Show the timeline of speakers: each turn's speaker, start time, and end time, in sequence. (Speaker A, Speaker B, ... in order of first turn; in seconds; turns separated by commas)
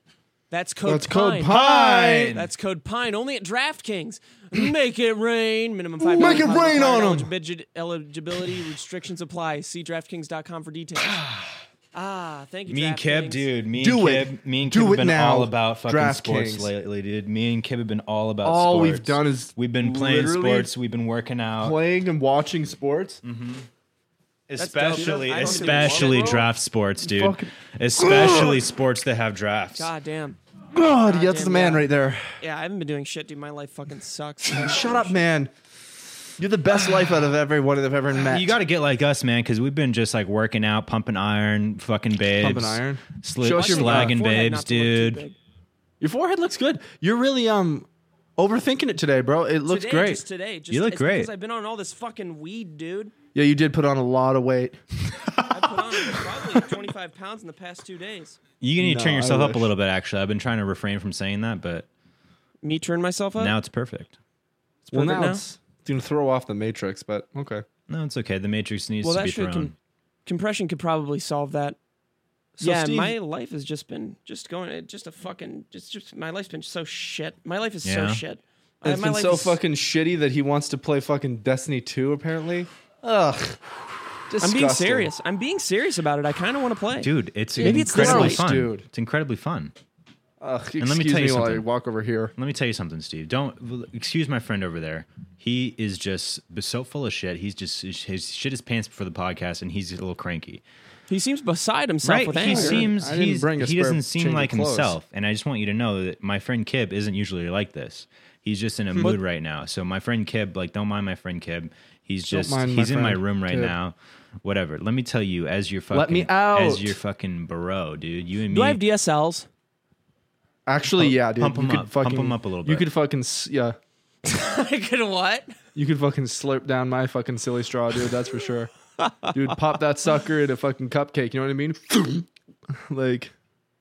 Speaker A: 0.5-1.5, Speaker B: 0.8-2.4, Speaker C: 1.4-2.5, Speaker A: 2.3-11.2, Speaker B: 6.0-7.3, Speaker A: 11.9-13.5, Speaker C: 12.7-21.8, Speaker B: 13.8-16.7, Speaker B: 18.4-20.7, Speaker B: 21.6-23.2, Speaker C: 23.2-23.7, Speaker C: 24.5-29.9, Speaker A: 24.6-26.5, Speaker B: 25.4-26.4, Speaker B: 27.0-28.6, Speaker A: 29.8-30.4, Speaker B: 30.7-32.3, Speaker A: 31.1-31.9, Speaker A: 32.4-35.1, Speaker B: 34.5-35.5, Speaker B: 36.4-38.6, Speaker C: 38.1-45.2, Speaker B: 42.4-44.1, Speaker A: 43.5-45.4, Speaker B: 46.0-50.2, Speaker A: 49.7-53.1, Speaker C: 50.7-51.3, Speaker B: 53.3-55.3, Speaker A: 55.5-58.4, Speaker C: 58.6-61.9, Speaker B: 58.8-59.7, Speaker A: 62.6-63.5, Speaker C: 63.4-64.2, Speaker B: 64.8-67.6, Speaker A: 64.9-65.4, Speaker C: 67.9-69.7, Speaker A: 69.0-69.7, Speaker A: 70.2-71.8, Speaker B: 72.6-73.1, Speaker A: 72.6-79.6, Speaker C: 77.8-78.2, Speaker B: 78.8-83.6, Speaker B: 84.3-85.1, Speaker A: 84.4-88.4, Speaker C: 87.0-89.7, Speaker B: 87.6-88.8, Speaker B: 90.4-92.3, Speaker C: 90.8-91.7, Speaker C: 92.4-100.6, Speaker A: 101.1-102.9, Speaker C: 102.0-118.8, Speaker B: 102.4-105.0, Speaker B: 112.3-113.8, Speaker B: 115.9-117.0, Speaker A: 118.5-119.5, Speaker B: 120.7-123.8, Speaker C: 120.9-122.9, Speaker A: 124.2-125.5, Speaker B: 125.8-128.7, Speaker A: 129.0-129.3, Speaker B: 129.2-133.3